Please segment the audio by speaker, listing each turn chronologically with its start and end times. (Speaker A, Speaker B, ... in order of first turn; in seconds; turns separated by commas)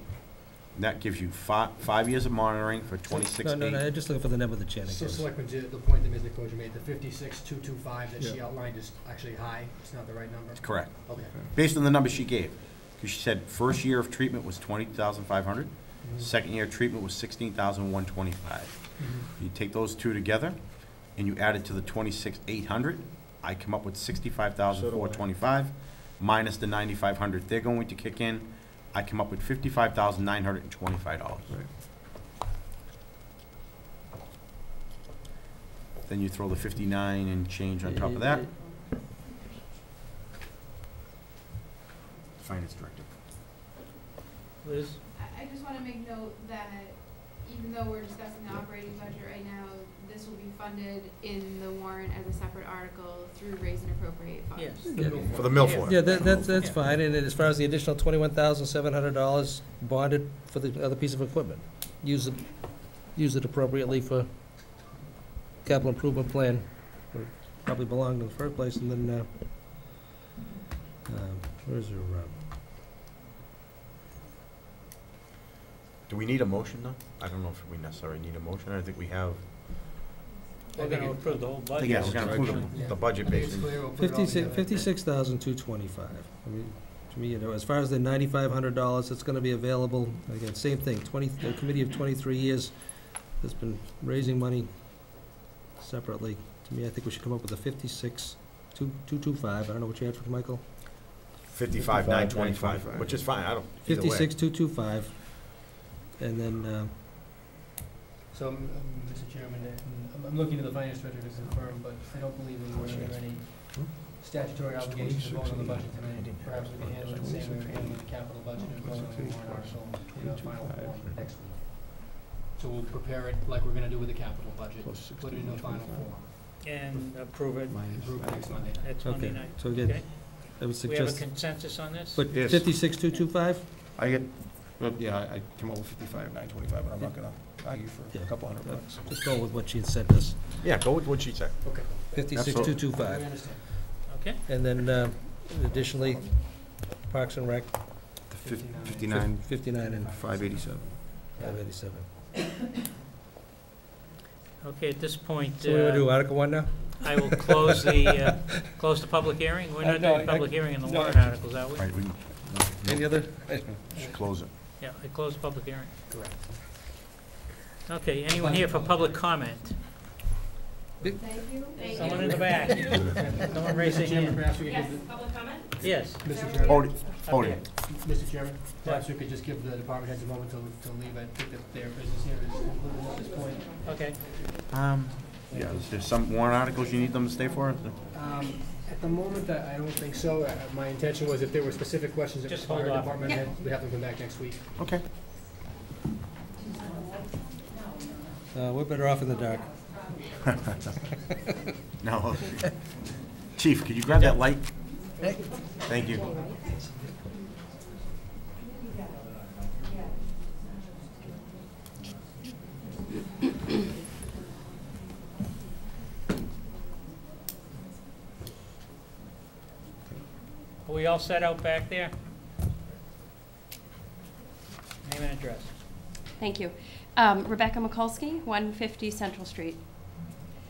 Speaker A: 0.7-3.8, Speaker B: 3.1-5.3, Speaker C: 4.8-11.3, Speaker A: 10.6-31.6, Speaker C: 16.0-16.3, Speaker C: 19.0-19.3, Speaker D: 24.7-25.2, Speaker A: 36.0-38.5, Speaker B: 37.9-38.5, Speaker A: 42.4-43.1, Speaker E: 44.6-45.0, Speaker F: 45.1-56.3, Speaker E: 54.5-54.9, Speaker B: 54.9-64.3, Speaker C: 54.9-55.7, Speaker D: 55.0-55.5, Speaker A: 55.3-56.2, Speaker E: 55.6-55.9, Speaker B: 65.6-70.0, Speaker B: 71.1-72.4, Speaker A: 76.1-79.4, Speaker E: 80.7-82.7, Speaker C: 80.8-84.9, Speaker A: 81.8-83.8, Speaker D: 81.8-82.8, Speaker B: 84.0-100.6, Speaker A: 101.4-104.3, Speaker D: 101.8-103.6, Speaker B: 103.8-107.0, Speaker C: 108.3-126.3, Speaker D: 112.7-121.3, Speaker D: 124.8-126.2, Speaker E: 126.6-127.9, Speaker D: 127.7-128.8, Speaker C: 127.9-128.9, Speaker E: 128.8-132.2, Speaker B: 129.0-131.3, Speaker D: 129.8-130.0, Speaker B: 132.1-133.7, Speaker D: 132.3-132.8, Speaker D: 133.8-139.0, Speaker B: 138.1-140.6, Speaker A: 140.6-142.7, Speaker C: 141.6-143.7, Speaker B: 142.1-143.8, Speaker E: 144.1-144.4, Speaker B: 144.5-147.8, Speaker D: 148.2-149.5, Speaker C: 148.4-151.6, Speaker B: 149.0-150.1, Speaker D: 150.1-151.3, Speaker B: 151.3-152.1, Speaker E: 154.6-156.2, Speaker B: 155.6-158.7, Speaker E: 157.0-162.0, Speaker B: 159.8-161.2, Speaker A: 161.8-163.2, Speaker B: 162.8-163.7, Speaker C: 163.9-164.2, Speaker A: 164.0-164.5, Speaker E: 164.8-165.9, Speaker C: 166.1-166.5, Speaker E: 167.9-169.8, Speaker C: 168.3-169.2, Speaker F: 171.2-172.9, Speaker G: 171.8-172.1, Speaker E: 171.9-174.4, Speaker C: 172.0-172.3, Speaker C: 173.0-184.0, Speaker G: 175.1-175.6, Speaker E: 175.8-176.4, Speaker A: 176.7-177.6, Speaker E: 177.2-177.6, Speaker E: 183.8-184.2, Speaker A: 184.7-188.0, Speaker C: 185.5-185.9, Speaker C: 188.1-194.7, Speaker E: 192.5-193.4, Speaker A: 194.8-195.1, Speaker B: 198.5-200.2, Speaker A: 202.0-202.8, Speaker A: 203.6-205.0, Speaker B: 205.2-205.5, Speaker A: 205.8-206.3, Speaker E: 220.8-222.1, Speaker E: 225.0-225.7, Speaker G: 226.4-229.8